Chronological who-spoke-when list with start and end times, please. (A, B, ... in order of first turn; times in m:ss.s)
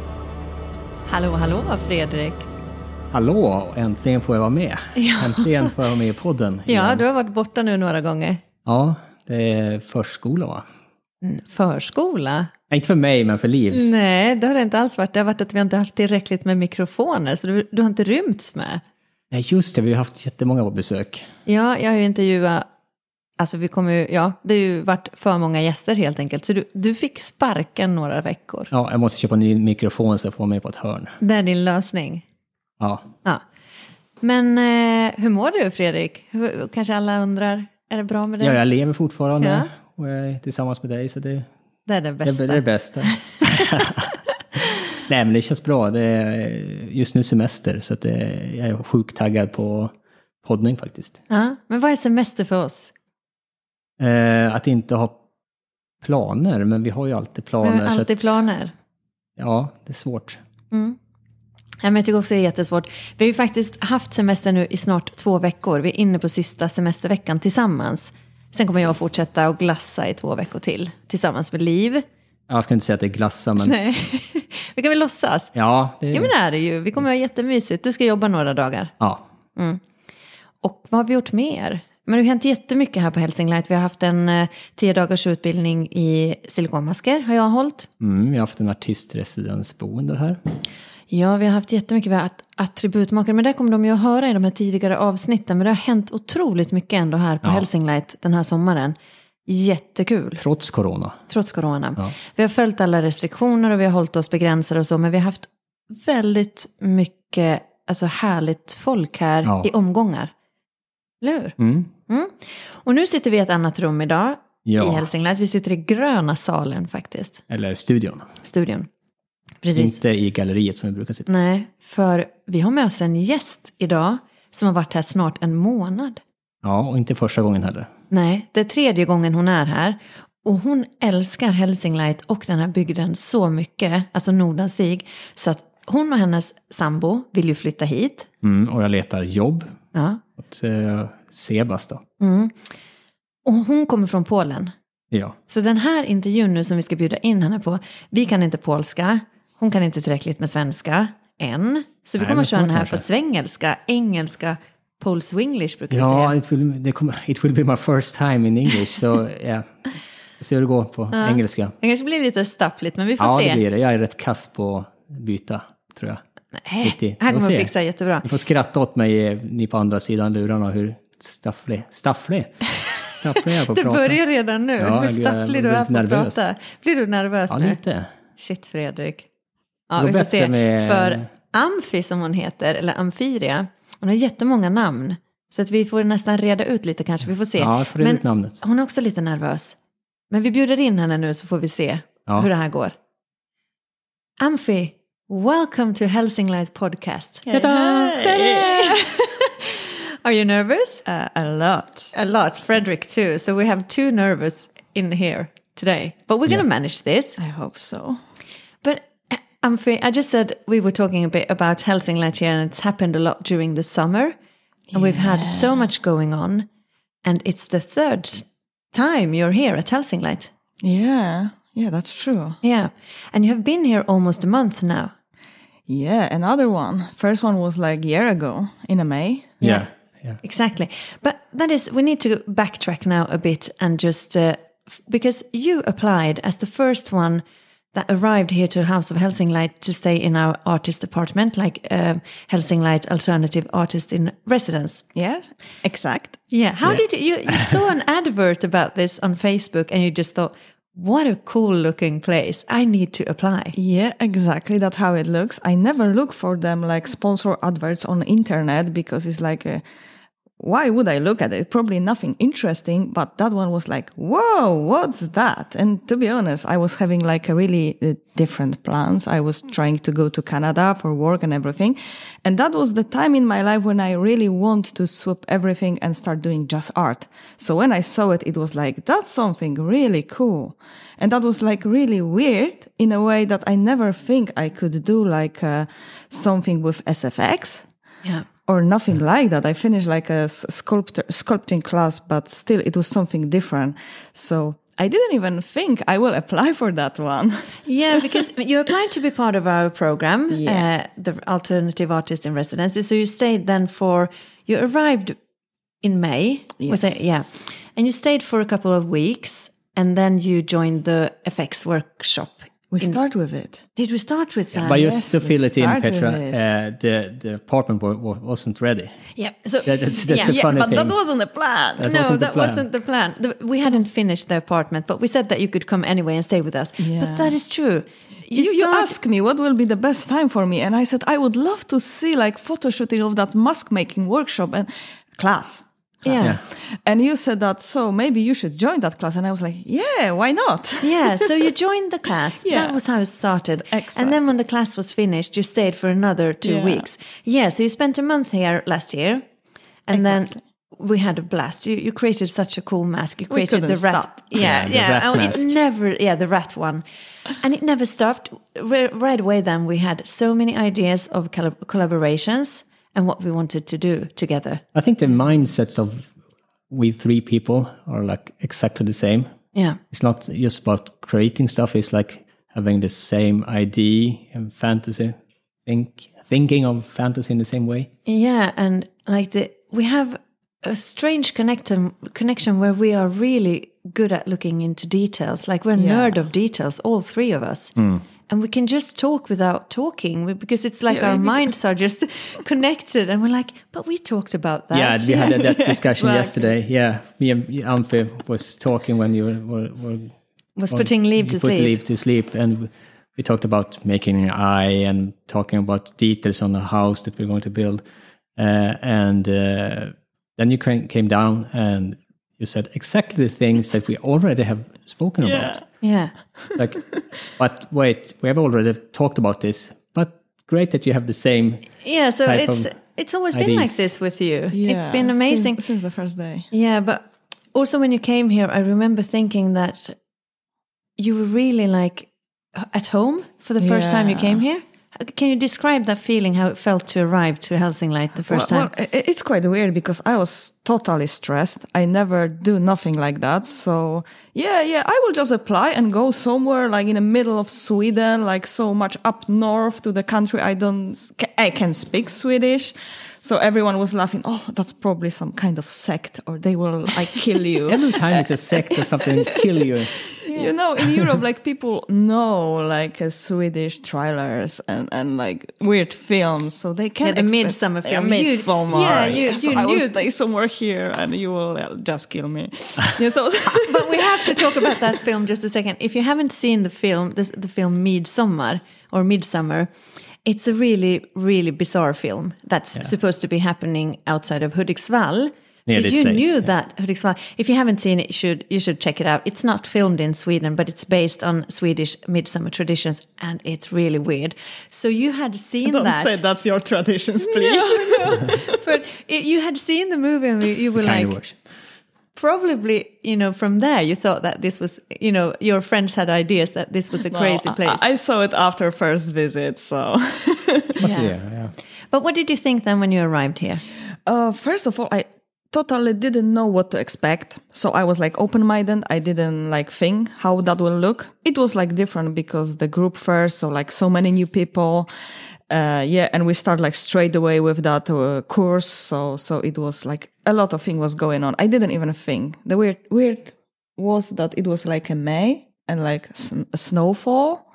0:01.1-0:02.5 A
0:03.1-0:07.0 B
0:05.0-0:05.7 A
0:06.6-0:08.4 A
0:08.6-0:10.6 B
0:11.2-0:12.5 A
0:12.7-0:13.9 B
0:13.7-0:18.8 A
0:19.3-0:21.3 B
0:21.4-0:22.6 A
0:23.4-0:28.7 A
0:28.7-0:31.2 B
0:31.2-0:32.2 A
0:32.8-0:33.1 B
0:34.2-0:38.6 A
0:38.4-0:41.5 B
0:39.4-0:39.7 A
0:41.9-0:43.7 A
0:42.2-0:44.1 B
0:45.1-0:51.2 B
0:51.3-0:52.9 A
0:54.0-0:55.2 B
0:56.0-0:58.2 B
0:57.6-0:58.7 A
0:59.4-1:00.4 B
1:00.7-1:01.0 A
1:01.8-1:12.0 A
1:12.5-1:13.8 B
1:13.6-1:15.5 A
1:15.5-1:16.3 B
1:16.1-1:18.9 A
1:19.6-1:19.8 A
1:20.6-1:27.9 A
1:28.0-1:30.4 B
1:31.1-1:40.4 A
1:40.4-1:41.2 B
1:41.3-1:50.3 A
1:49.4-1:49.7 B
1:51.2-1:51.6 A
1:51.6-1:51.9 B
1:52.1-1:57.4 A
1:54.6-1:55.1 B
1:57.5-1:58.3 B
1:58.4-1:58.9 A
1:59.6-2:00.0 A
1:59.8-2:01.3 B
2:01.3-2:06.2 A
2:06.6-2:07.9 B
2:08.1-2:18.3 A
2:18.4-2:19.7 B
2:19.9-2:20.2 A
2:20.4-2:22.0 B
2:22.2-2:22.5 A
2:23.4-2:24.7 A
2:25.1-2:25.4 B
2:25.5-2:36.3 A
2:32.2-2:33.0 B
2:35.9-2:39.7 B
2:40.4-2:41.7 B
2:41.1-2:43.6 A
2:43.2-2:46.2 B
2:46.6-2:48.3 A
2:46.8-2:47.7 B
2:48.2-2:54.2 B
2:53.4-2:57.8 A
2:54.8-2:56.5 B
2:57.5-2:58.1 B
2:58.4-2:59.2 A
2:59.9-3:09.8 A
3:00.0-3:01.2 B
3:07.6-3:08.6 B
3:10.3-3:12.9 A
3:14.4-3:17.5 A
3:17.4-3:19.1 C
3:17.5-3:18.2 B
3:18.1-3:21.0 A
3:21.0-3:22.1 C
3:22.1-3:27.4 A
3:27.4-3:28.2 C
3:28.8-3:34.4 A
3:34.9-3:35.8 C
3:34.9-3:36.7 A
3:37.2-3:40.5 A
3:40.8-3:42.6 C
3:42.6-3:45.1 A
3:45.9-3:49.6 C
3:49.6-3:49.9 A
3:49.6-3:50.4 B
3:50.4-4:05.0 A
4:05.1-4:06.4 C
4:06.5-4:13.7 A
4:13.7-4:19.8 C
4:20.6-4:47.8 C
4:48.7-4:58.2 C
4:57.8-5:05.4 A
5:00.5-5:00.8 C
5:06.0-5:13.2 A
5:06.8-5:07.3 C
5:12.9-5:13.8 C
5:14.0-5:15.1 A
5:14.7-5:19.2 B
5:14.8-5:16.6 C
5:19.4-5:20.5 A
5:19.8-5:21.2 B
5:20.3-5:22.1 C
5:22.0-5:22.8 B
5:22.0-5:29.2 A
5:27.0-5:27.6 C
5:28.5-5:41.7 C
5:36.2-5:36.6 A
5:41.0-5:49.4 A
5:42.6-5:43.0 C
5:43.9-5:44.4 C
5:46.6-5:47.0 C
5:50.1-5:57.0 A
5:50.1-5:50.4 C
5:53.5-5:54.6 C
5:54.6-5:55.7 B
5:57.6-6:04.8 A
6:04.9-6:06.3 B
6:06.9-6:09.5 B
6:09.7-6:10.0 A
6:10.1-6:15.3 B
6:15.8-6:18.1 B
6:18.2-6:28.0 A
6:26.0-6:26.3 C
6:28.0-6:28.2 B
6:28.5-6:35.7 A
6:31.1-6:31.7 C
6:34.9-6:40.3 B
6:35.4-6:36.7 C
6:40.8-6:42.0 A
6:40.9-6:48.0 B
6:48.6-6:55.8 B
6:55.4-6:55.8 C
6:56.0-6:56.3 A
6:56.8-7:02.9 B
7:02.0-7:05.8 A
7:03.5-7:04.0 B
7:04.7-7:06.7 C
7:06.7-7:10.2 A
7:11.2-7:18.9 A
7:13.8-7:14.6 C
7:18.5-7:55.2 C
7:37.9-7:40.2 B
7:40.4-7:40.7 A
7:47.2-7:50.2 A
7:49.0-7:49.4 B
7:53.7-7:59.9 A
8:00.4-8:16.4 A
8:05.9-8:06.6 B
8:15.8-8:18.8 C
8:17.4-8:21.4 A
8:21.0-8:21.6 B
8:22.3-8:28.0 A
8:27.3-8:31.0 C
8:31.0-8:31.7 B
8:31.0-8:31.3 A
8:32.1-8:33.8 A
8:34.2-8:45.1 C
8:45.7-8:57.6 C